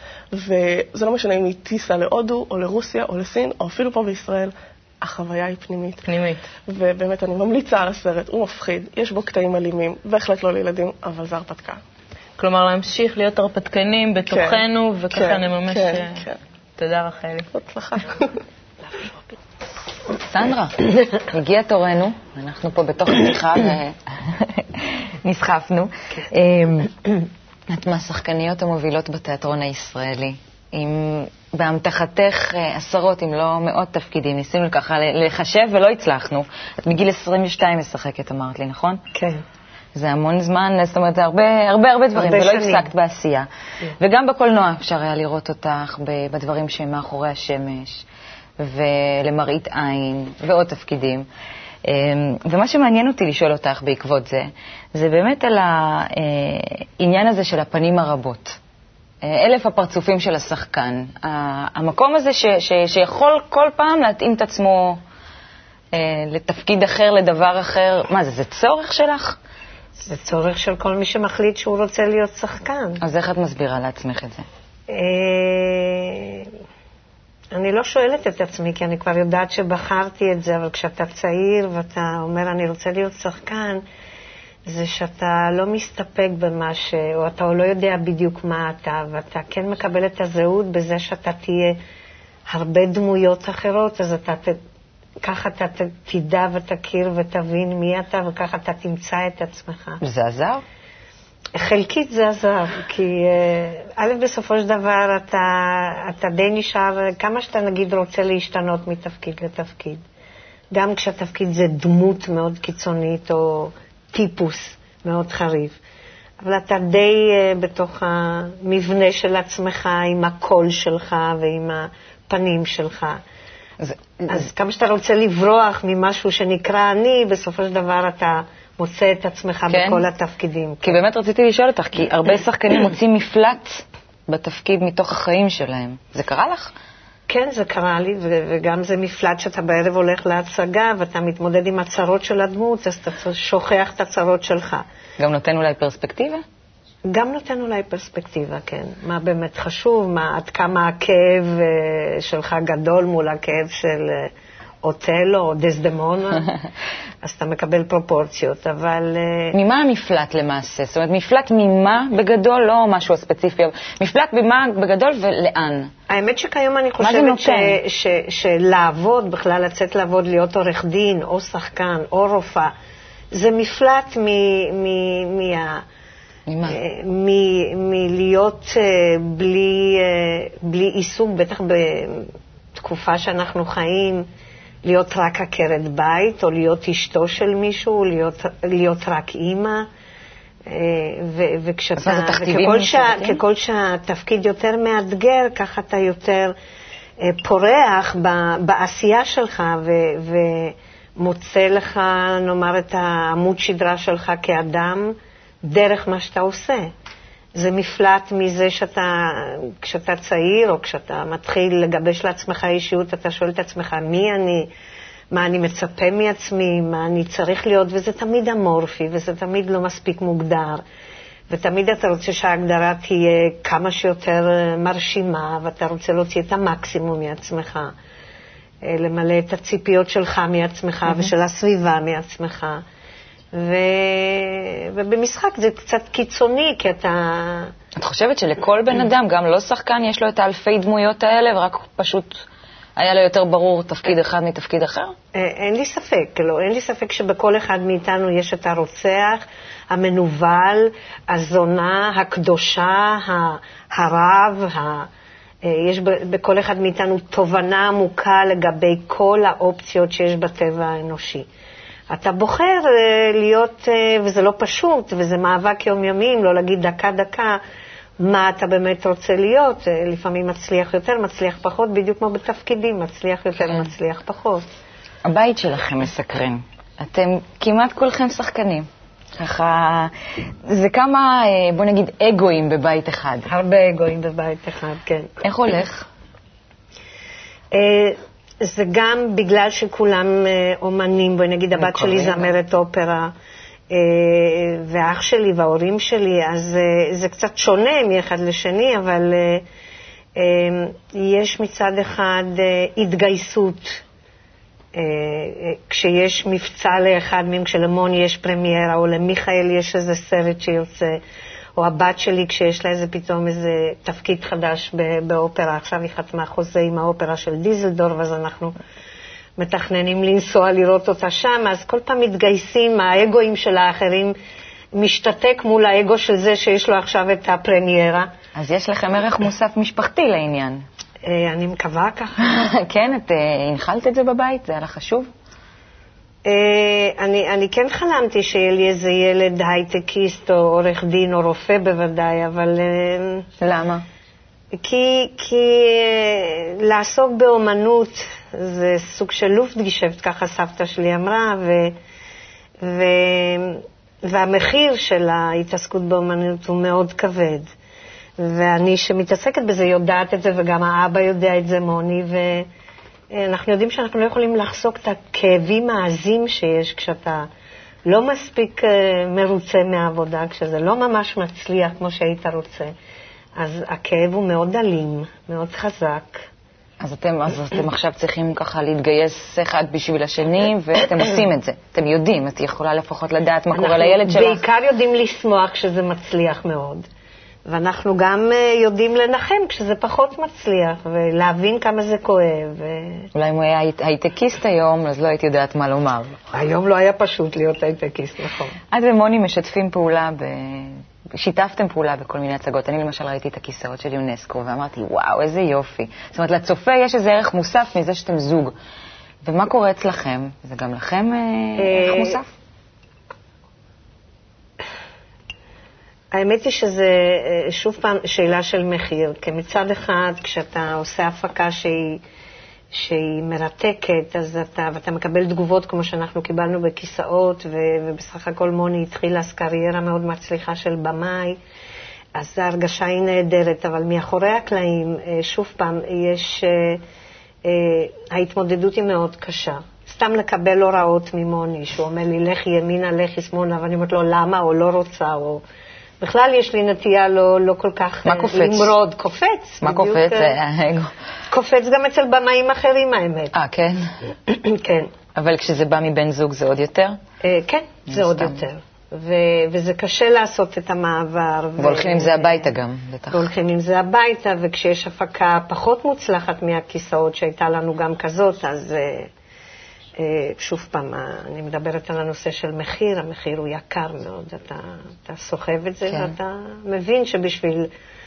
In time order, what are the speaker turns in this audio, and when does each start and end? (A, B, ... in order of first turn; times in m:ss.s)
0:00.3-0:06.0 A
0:06.0-0:06.4 B
0:06.7-0:11.8 A
0:12.4-0:16.2 B
0:14.3-0:16.4 A
0:16.8-0:17.5 B
0:17.5-0:18.4 A
0:20.2-0:26.9 C
0:27.7-0:39.0 C
0:39.1-0:39.4 D
0:40.0-0:43.5 C
0:42.2-0:42.9 D
0:44.0-0:48.0 C
0:48.6-0:51.3 C
0:51.8-0:58.6 C
0:59.2-1:05.0 C
1:05.9-1:09.4 C
1:10.0-1:13.0 D
1:13.0-1:14.5 C
1:14.9-1:16.5 D
1:17.5-1:23.8 D
1:24.7-1:31.8 D
1:32.5-1:34.6 D
1:35.2-1:40.0 D
1:40.0-1:40.6 C
1:41.5-1:50.0 D
1:50.7-1:55.8 D
1:56.4-2:03.2 D
2:03.8-2:04.5 C
2:04.3-2:11.0 D
2:09.7-2:10.0 C
2:10.8-2:16.7 C
2:17.3-2:24.8 D
2:25.2-2:26.4 C
2:27.1-2:34.3 D
2:34.8-2:36.6 D
2:37.2-2:39.6 D
2:39.5-2:45.9 C
2:46.1-2:52.7 D
2:47.0-2:47.8 C
2:53.3-2:55.8 D
2:56.5-2:56.8 C
2:56.7-3:04.3 D
3:04.8-3:09.9 D
3:10.7-3:16.5 D
3:12.0-3:13.4 C
3:17.2-3:26.9 D
3:27.6-3:34.7 D
3:35.3-3:40.8 D
3:41.5-3:47.9 D
3:48.8-3:52.8 D
3:53.5-3:57.7 D
3:58.0-4:02.4 C
4:03.0-4:05.1 C
4:05.3-4:15.1 D
4:15.6-4:21.5 D
4:22.1-4:27.6 D
4:28.2-4:34.7 D
4:33.6-4:33.9 C
4:35.2-4:43.5 C
4:43.5-4:45.3 D
4:45.4-4:46.1 C
4:47.7-4:53.3 D
4:51.8-4:52.5 C
4:53.9-4:59.6 D
5:00.4-5:04.0 D
5:05.0-5:11.2 D
5:11.8-5:18.8 D
5:19.6-5:24.4 D
5:24.9-5:28.3 D
5:28.6-5:30.8 C
5:31.2-5:32.6 D
5:32.5-5:35.3 C
5:36.4-5:43.5 D
5:43.6-5:44.0 C
5:44.7-5:52.0 D
5:52.8-5:57.7 D
5:58.4-6:02.7 D
6:03.3-6:07.5 D
6:08.1-6:12.9 D
6:13.6-6:16.4 D
6:17.0-6:24.6 C
6:23.7-6:27.1 D
6:27.7-6:33.3 D
6:33.3-6:36.4 C
6:36.5-6:38.8 D
6:38.9-6:48.7 C
6:49.4-6:52.5 C
6:51.8-6:52.4 D
6:56.3-7:02.2 D
7:02.9-7:11.6 D
7:12.4-7:17.0 D
7:17.6-7:25.6 D
7:26.2-7:30.5 D
7:28.3-7:28.9 C
7:29.8-7:31.1 C
7:31.5-7:33.5 D
7:33.5-7:34.0 C
7:34.5-7:35.1 D
7:35.4-7:37.2 C
7:37.4-7:42.7 D
7:38.1-7:38.6 C
7:41.8-7:43.5 C
7:43.3-7:49.3 D
7:50.2-7:57.9 D
7:56.1-7:56.4 C